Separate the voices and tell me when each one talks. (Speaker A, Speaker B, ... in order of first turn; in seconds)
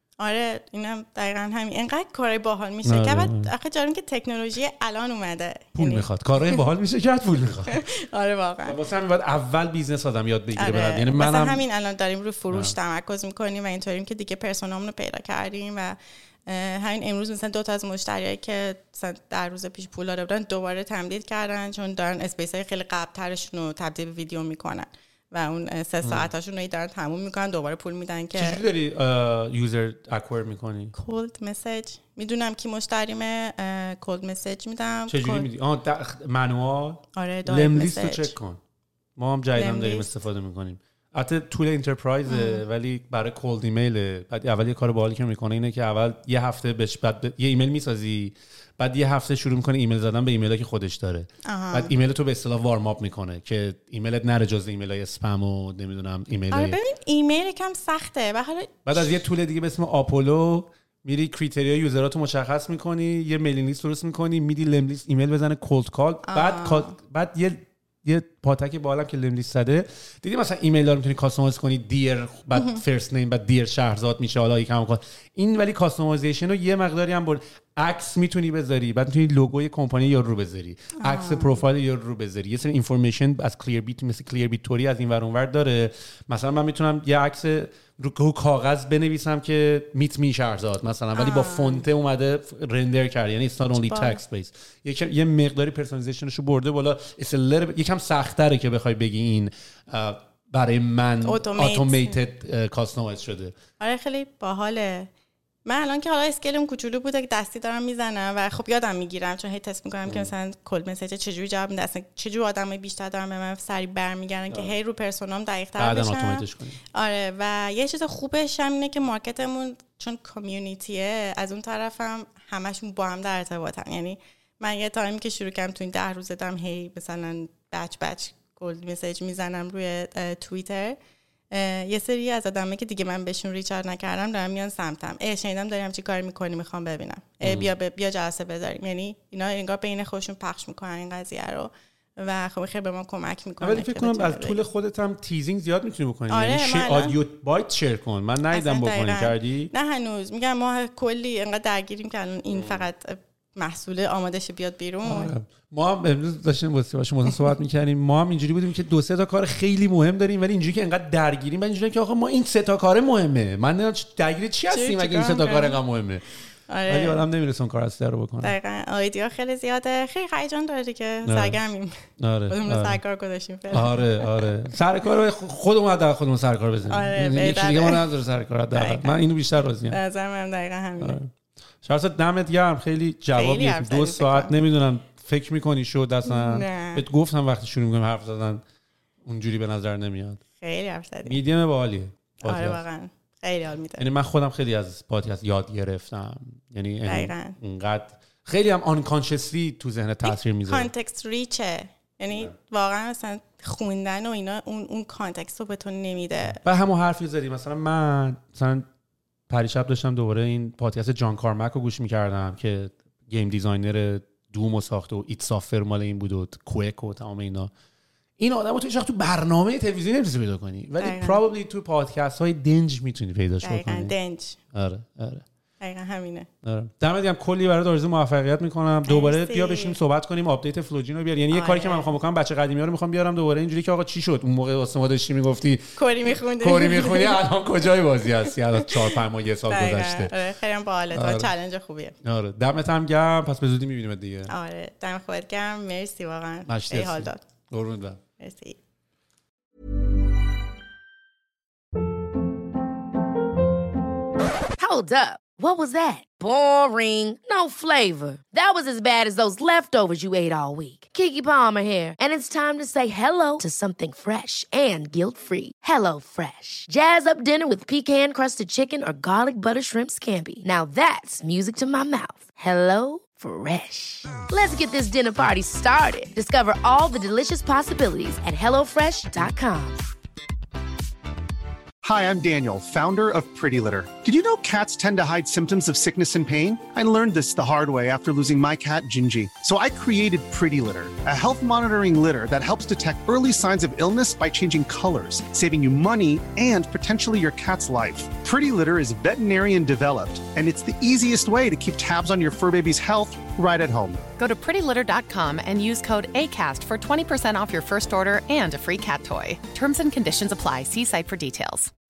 Speaker A: 0.2-6.6, 7.7-8.8, 10.6-28.6, 30.9-35.5, 37.1-38.3, 39.5-40.1, 42.3-42.6, 51.5-51.9, 56.5-59.1, 66.3-66.9, 72.5-72.8, 81.0-81.6, 91.2-91.8, 93.8-94.2, 101.2-102.2, 103.8-105.1, 105.7-131.0, 131.5-144.6, 146.3-147.2, 148.5-155.3, 164.7-165.8, 166.7-167.2, 168.4-174.5, 176.9-178.0, 178.7-179.2, 179.9-181.2, 183.3-184.5, 186.2-187.0, 190.6-191.4, 192.4-194.1, 197.1-197.6, 200.2-206.6, 221.0-221.4, 223.6-224.6, 225.8-226.5, 229.1-230.0, 231.5-232.1, 236.0-237.4, 239.7-242.2, 244.5-247.4, 248.4-248.8
Speaker B: 2.9-3.5, 5.8-7.8, 8.7-11.6, 26.0-26.3, 28.3-30.9, 35.1-38.6, 39.2-56.8, 58.9-103.5, 115.8-116.8, 137.4-137.7, 143.6-149.7, 152.5-152.8, 155.0-166.2, 166.9-168.6, 171.3-171.6, 172.2-173.0, 173.7-180.0, 181.0-181.3, 181.8-188.6, 189.2-190.4, 191.2-192.8, 194.0-200.9, 206.6-208.9, 209.5-217.7, 218.4-224.1, 224.7-225.4, 226.6-240.3, 241.1-241.5, 242.2-244.5, 246.7-248.2
Speaker C: 254.8-280.0
Speaker D: 282.0-304.2
Speaker E: 304.4-311.9